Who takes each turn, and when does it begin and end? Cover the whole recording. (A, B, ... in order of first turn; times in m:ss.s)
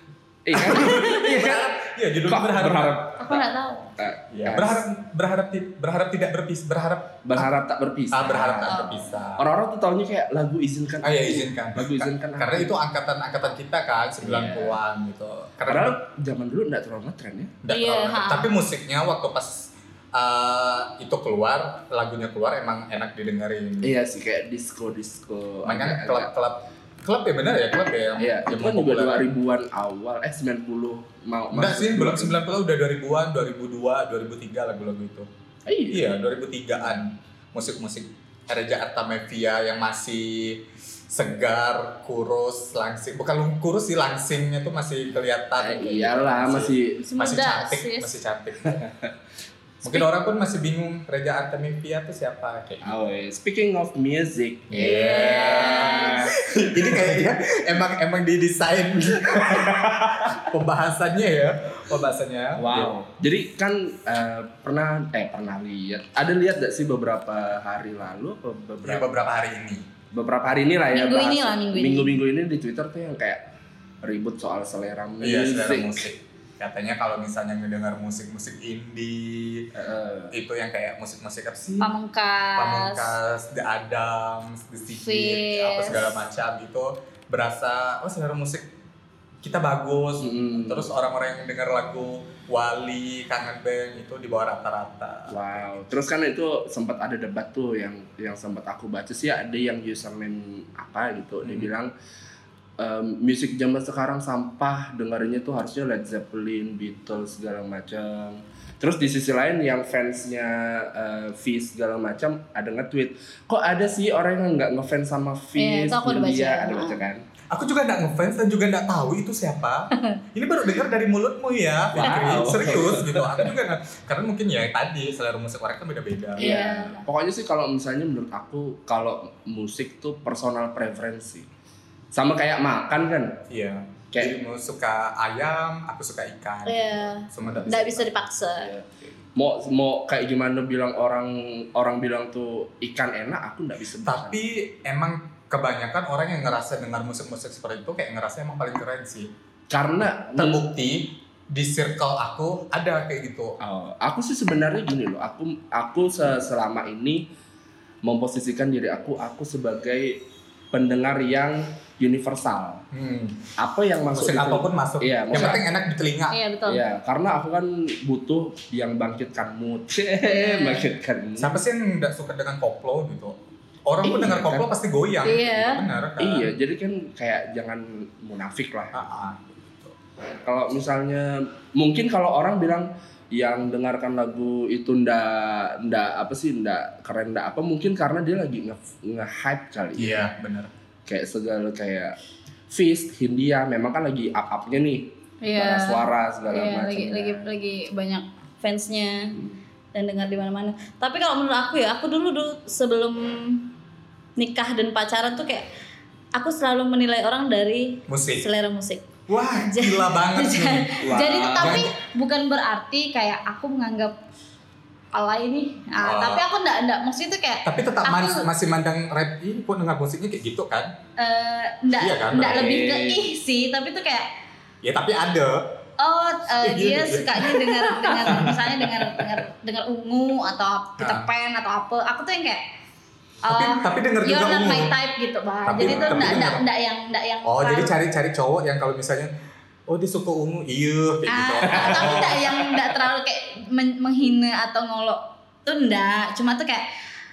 0:00.4-0:03.4 A
0:00.5-0:03.4 B
0:00.6-0:01.1 C
0:03.2-0:03.9 C
0:04.0-0:04.9 A
0:04.3-0:07.5 B
0:07.2-0:08.8 A
0:08.1-0:09.4 B
0:08.7-0:09.0 C
0:09.4-0:12.7 A
0:11.0-0:16.0 B
0:14.2-0:14.8 A
0:15.6-0:17.5 A
0:17.6-0:23.9 B
0:17.7-0:18.5 C
0:23.8-0:26.3 A
0:25.6-0:29.2 B
0:28.2-0:32.4 A
0:31.5-0:35.3 B
0:35.7-0:36.1 A
0:35.9-0:48.8 B
0:45.6-0:47.0 A
0:47.0-0:48.1 C
0:48.7-0:49.1 A
0:49.8-0:53.0 B
0:52.8-0:57.2 A
0:54.7-1:02.9 B
0:54.8-0:56.3 C
1:02.6-1:09.2 A
1:08.8-1:09.8 B
1:10.1-1:13.4 A
1:10.9-1:12.2 C
1:14.0-1:16.1 A
1:15.2-1:19.7 B
1:19.7-1:20.3 A
1:20.3-1:21.9 B
1:21.8-1:23.1 C
1:22.6-1:28.7 B
1:25.0-1:26.1 C
1:29.4-1:35.7 B
1:30.2-1:30.9 A
1:35.3-1:41.9 A
1:41.4-1:41.7 B
1:42.8-1:57.2 A
1:55.6-1:57.0 C
1:57.5-2:06.5 B
2:01.9-2:03.5 A
2:06.4-2:07.0 C
2:06.4-2:11.5 A
2:12.1-2:13.4 A
2:13.5-2:18.1 B
2:14.1-2:14.4 A
2:16.6-2:18.7 C
2:18.4-2:24.4 A
2:24.0-2:29.3 B
2:29.7-2:30.6 A
2:30.4-2:33.6 B
2:33.6-2:37.3 A
2:38.0-2:40.2 A
2:40.7-2:42.8 A
2:42.9-2:43.5 B
2:43.6-2:45.6 A
2:44.1-2:46.4 B
2:46.3-2:46.8 C
2:46.7-2:51.6 A
2:50.2-2:50.9 C
2:51.4-2:56.5 B
2:54.0-2:54.7 A
2:55.2-2:55.8 C
2:56.2-2:59.0 A
2:58.9-2:59.9 B
3:00.4-3:10.3 A
3:10.0-3:10.7 B
3:11.0-3:12.2 A
3:12.7-3:17.5 A
3:15.4-3:19.4 C
3:19.9-3:23.7 C
3:24.4-3:25.7 C
3:26.3-3:29.1 C
3:28.1-3:28.5 B
3:29.3-3:31.9 B
3:29.6-3:34.2 C
3:31.0-3:31.9 A
3:35.1-3:38.5 C
3:36.0-3:36.4 B
3:37.6-3:40.9 B
3:41.2-3:44.3 C
3:42.0-3:42.7 B
3:42.4-3:43.3 A
3:44.8-3:45.6 B
3:46.0-3:52.6 C
3:46.6-3:48.6 B
3:48.2-3:48.5 A
3:51.0-3:51.3 B
3:53.4-3:57.9 C
3:53.5-3:54.9 B
3:55.6-3:56.6 B
3:55.8-3:56.4 A
3:57.4-3:59.3 B
3:59.9-4:02.4 B
4:01.3-4:06.9 C
4:01.7-4:02.8 A